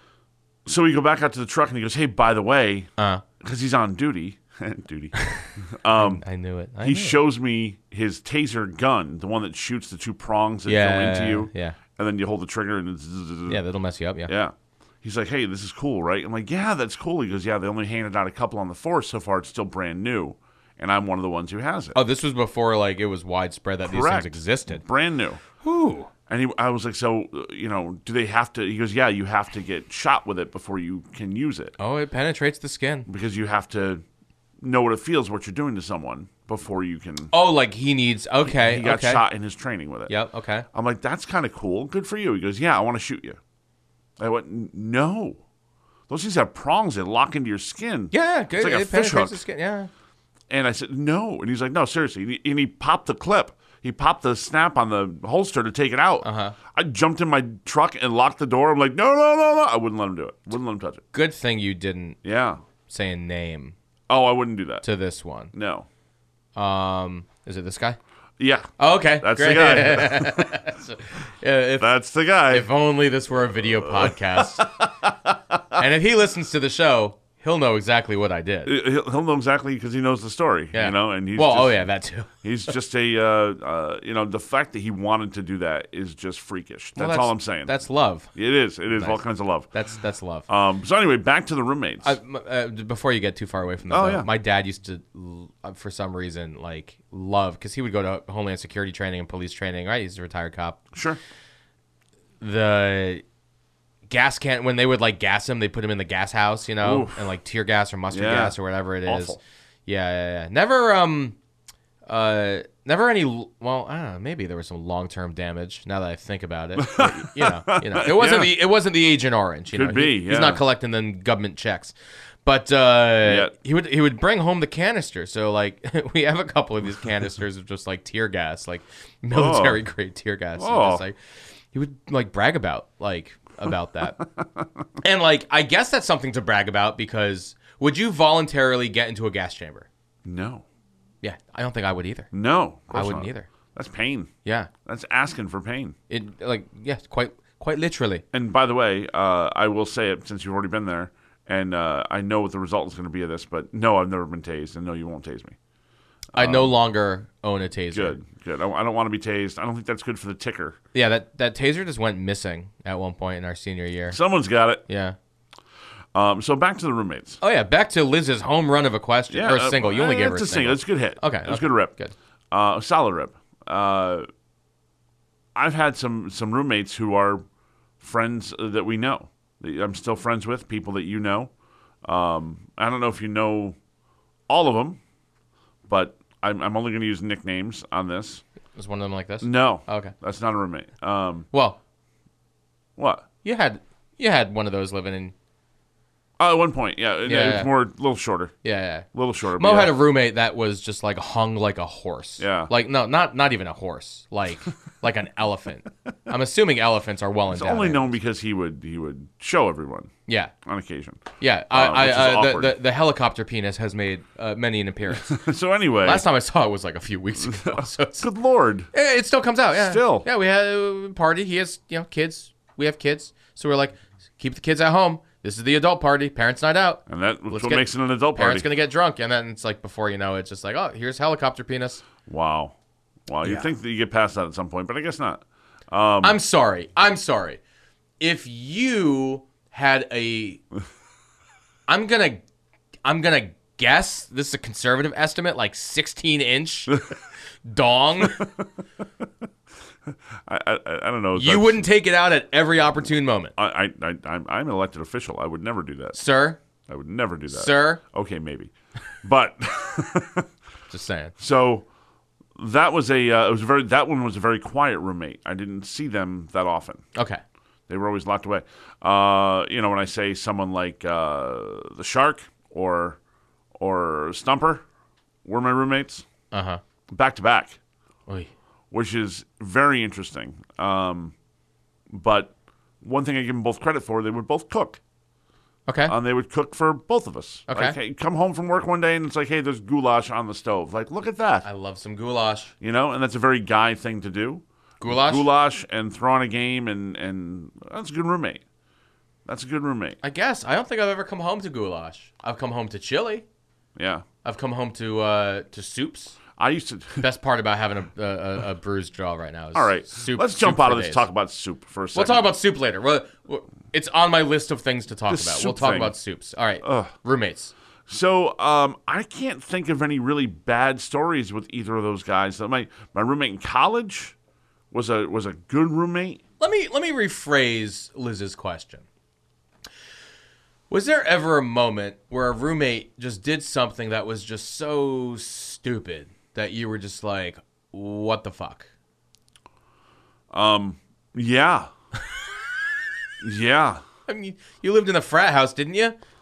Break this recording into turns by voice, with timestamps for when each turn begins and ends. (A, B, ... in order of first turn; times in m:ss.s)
0:00.6-0:06.2 A
0:03.0-0:03.2 B
0:05.2-0:07.2 B
0:06.8-0:13.6 A
0:10.6-0:11.8 B
0:13.5-0:14.3 B
0:14.3-0:22.0 A
0:21.9-0:24.8 B
0:23.8-0:25.4 A
0:25.6-0:26.1 B
0:26.3-0:31.7 A
0:31.8-0:33.1 B
0:33.1-0:34.0 A
0:34.6-0:37.3 A
0:37.3-0:39.2 B
0:38.4-0:40.1 A
0:40.1-0:40.6 B
0:40.7-0:43.4 A
0:44.2-0:45.4 A
0:46.1-0:49.4 A
0:48.1-0:49.9 B
0:50.5-1:01.0 A
0:56.2-0:56.6 B
1:01.1-1:02.2 B
1:02.2-1:02.6 A
1:02.9-1:03.7 B
1:04.1-1:04.8 A
1:04.8-1:05.5 B
1:05.5-1:05.8 A
1:06.6-1:08.0 B
1:08.4-1:10.6 A
1:08.8-1:11.9 B
1:11.8-1:12.7 A
1:12.5-1:14.8 B
1:13.8-1:15.8 A
1:15.7-1:18.7 B
1:18.6-1:21.8 A
1:20.7-1:22.3 B
1:22.4-1:27.7 A
1:27.0-1:28.3 B
1:28.3-1:29.7 A
1:28.9-1:30.5 B
1:30.5-1:32.2 A
1:32.0-1:40.8 B
1:33.9-1:34.3 A
1:40.9-1:41.2 A
1:42.4-1:43.2 B
1:44.1-1:51.4 B
1:46.8-1:47.3 A
1:48.1-1:48.5 A
1:49.0-1:49.4 A
1:52.1-2:01.9 B
1:56.8-1:58.5 A
1:59.7-2:00.6 A
2:02.4-2:11.2 B
2:03.2-2:03.5 A
2:09.3-2:09.8 A
2:10.6-2:11.0 A
2:11.7-2:14.2 B
2:15.0-2:19.9 B
2:20.2-2:20.6 A
2:21.2-2:22.3 B
2:22.3-2:24.3 A
2:22.9-2:23.5 B
2:24.4-2:24.7 B
2:24.8-2:26.0 A
2:26.1-2:28.2 B
2:28.3-2:35.6 A
2:36.3-2:36.7 A
2:36.3-2:38.2 B
2:37.9-2:40.8 A
2:40.9-2:44.2 B
2:44.1-2:44.8 A
2:44.9-2:45.2 B
2:46.1-2:47.4 A
2:47.4-2:52.1 B
2:49.3-2:51.9 A
2:52.5-2:54.3 A
2:55.5-2:57.4 A
2:58.0-3:01.5 A
3:02.0-3:03.8 A
3:04.5-3:05.0 A
3:05.8-3:08.4 A
3:08.8-3:10.1 B
3:09.4-3:11.5 A
3:11.5-3:11.8 B
3:13.0-3:13.2 A
3:13.4-3:15.3 B
3:16.4-3:18.5 A
3:17.2-3:17.7 B
3:18.6-3:19.1 B
3:19.1-3:20.0 A
3:19.6-3:28.1 B
3:22.4-3:22.7 A
3:27.5-3:30.1 A
3:30.3-3:30.5 B
3:30.6-3:32.8 A
3:31.4-3:35.4 B
3:35.1-3:36.2 A
3:36.0-3:38.3 B
3:37.4-3:38.9 A
3:38.9-3:52.0 B
3:39.7-3:40.2 A
3:47.1-3:48.7 A
3:52.2-3:52.7 A
3:53.3-3:56.4 A
3:53.4-3:53.7 B
3:56.2-3:57.6 B
3:58.2-4:00.6 B
4:01.9-4:02.4 B
4:03.0-4:07.0 B
4:07.6-4:08.5 B
4:08.2-4:08.6 A
4:10.1-4:11.8 A
4:11.3-4:13.5 B
4:13.6-4:16.2 A
4:16.1-4:16.6 B
4:16.9-4:18.7 A
4:17.5-4:18.0 B
4:19.2-4:20.5 A
4:20.9-4:21.3 B
4:21.4-4:21.8 A
4:22.6-4:27.0 A
4:27.1-4:27.4 B
4:27.9-4:33.2 A
4:33.8-4:34.8 A
4:35.4-4:36.2 A
4:36.5-4:36.8 B
4:37.1-4:37.8 A
4:38.9-4:41.3 A
4:42.1-4:45.0 A
4:45.9-4:46.1 B
4:46.1-4:51.6 A
4:47.7-4:48.0 B
4:51.6-4:52.7 B
4:52.8-4:58.6 A
4:55.0-4:55.5 B
4:59.4-5:00.2 A
5:00.2-5:03.4 B
5:04.0-5:04.2 A
5:04.4-5:06.4 B
5:06.6-5:07.2 A
5:07.2-5:11.2 B
5:09.7-5:12.5 A
5:12.1-5:17.7 B
5:15.3-5:16.1 A
5:16.8-5:17.1 A
5:18.1-5:24.3 A
5:24.9-5:26.4 A
5:26.6-5:29.0 B
5:30.9-5:38.9 B
5:40.5-5:41.9 A
5:43.4-5:44.0 A
5:44.3-5:46.2 B